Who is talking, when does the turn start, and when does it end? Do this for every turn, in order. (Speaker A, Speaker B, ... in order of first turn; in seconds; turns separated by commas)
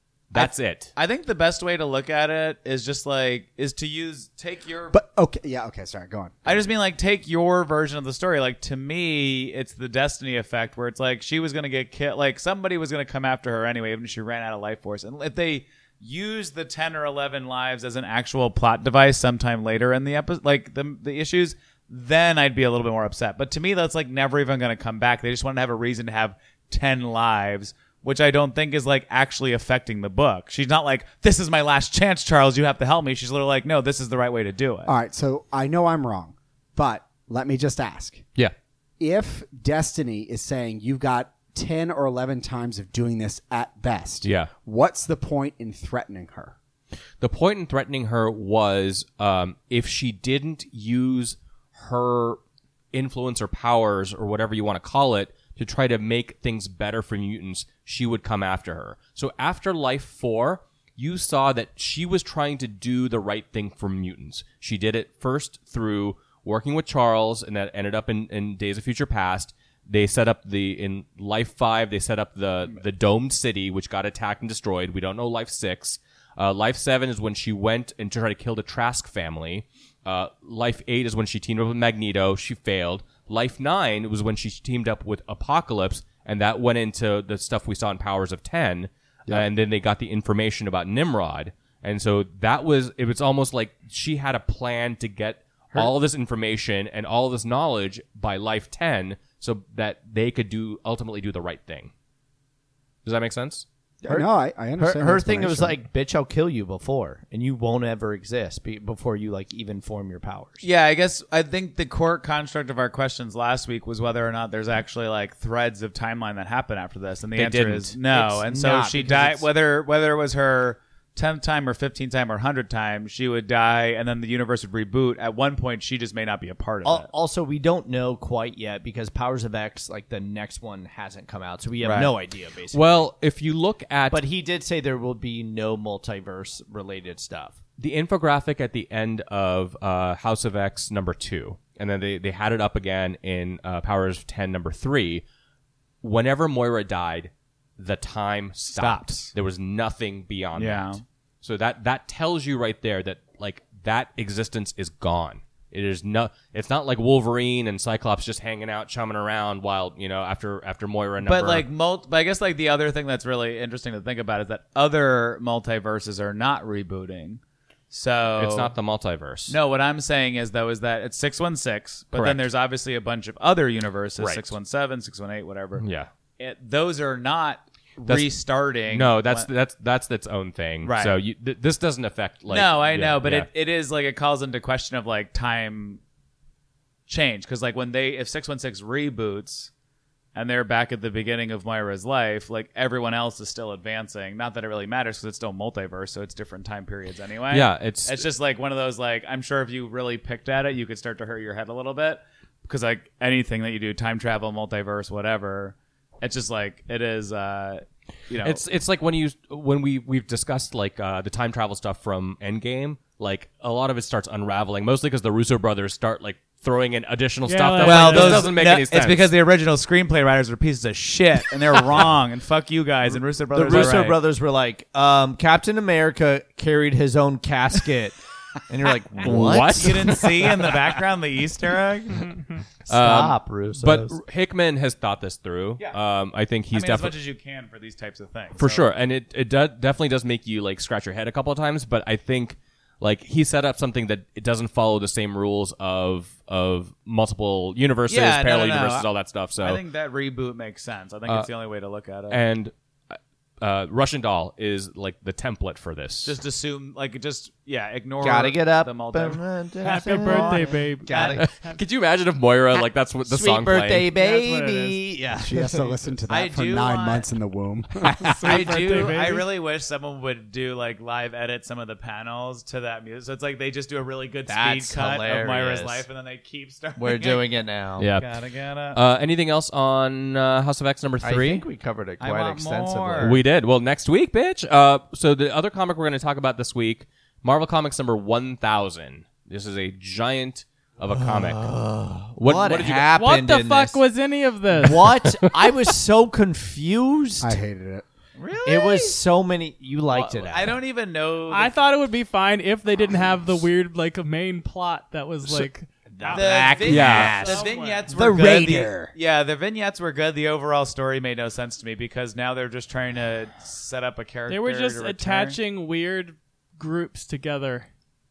Speaker A: 0.3-0.9, Speaker B: 0.3-5.0, Speaker C: 4.9-6.6, Speaker B: 6.4-34.9, Speaker C: 34.8-38.2, Speaker C: 39.0-46.5, Speaker A: 44.2-44.5, Speaker A: 47.2-52.4, Speaker A: 52.9-101.9, Speaker A: 103.0-103.6, Speaker D: 104.0-110.7, Speaker C: 104.0-105.8, Speaker B: 110.6-127.1, Speaker A: 117.3-118.0, Speaker D: 118.1-119.5, Speaker D: 126.8-133.1, Speaker B: 131.8-132.1, Speaker A: 132.7-134.2, Speaker D: 134.1-137.6, Speaker A: 137.8-145.2, Speaker A: 146.0-161.7, Speaker B: 148.7-149.3, Speaker B: 150.6-151.0, Speaker B: 161.2-168.7, Speaker A: 168.4-169.6, Speaker B: 169.5-175.8, Speaker A: 172.1-172.4, Speaker A: 174.2-174.5, Speaker A: 175.8-176.1, Speaker B: 176.4-179.5, Speaker A: 178.9-183.5, Speaker B: 180.8-181.2, Speaker B: 182.5-186.0, Speaker B: 187.1-189.7, Speaker B: 190.3-208.6, Speaker A: 197.5-198.2, Speaker A: 208.4-219.3, Speaker E: 217.4-218.5, Speaker B: 217.8-224.2, Speaker D: 223.5-230.7, Speaker A: 229.2-230.5, Speaker B: 229.5-232.3, Speaker D: 232.9-234.2, Speaker A: 232.9-237.1, Speaker B: 236.7-238.8, Speaker A: 238.6-249.8, Speaker B: 248.1-252.4, Speaker A: 252.3-256.4, Speaker B: 256.2-261.4, Speaker D: 258.2-261.5, Speaker E: 259.8-261.8, Speaker A: 261.4-264.1, Speaker D: 262.8-265.8, Speaker E: 264.1-265.0, Speaker C: 265.4-268.3, Speaker B: 266.2-267.3, Speaker D: 268.0-269.4, Speaker E: 268.4-269.5, Speaker B: 268.4-277.5, Speaker D: 274.5-276.1, Speaker D: 277.0-278.1, Speaker A: 278.0-278.3, Speaker B: 278.1-279.0, Speaker A: 278.9-281.6, Speaker D: 281.2-283.4, Speaker B: 282.2-283.4, Speaker A: 283.2-291.7, Speaker D: 291.1-294.0, Speaker A: 292.4-293.1, Speaker E: 293.1-295.1, Speaker D: 294.7-297.6, Speaker C: 297.4-298.1, Speaker B: 298.4-299.2, Speaker D: 298.6-300.8, Speaker B: 300.1-301.7, Speaker E: 301.5-308.0, Speaker D: 305.4-307.7, Speaker B: 306.3-315.6, Speaker A: 306.9-307.4, Speaker C: 308.1-309.1, Speaker E: 314.5-317.9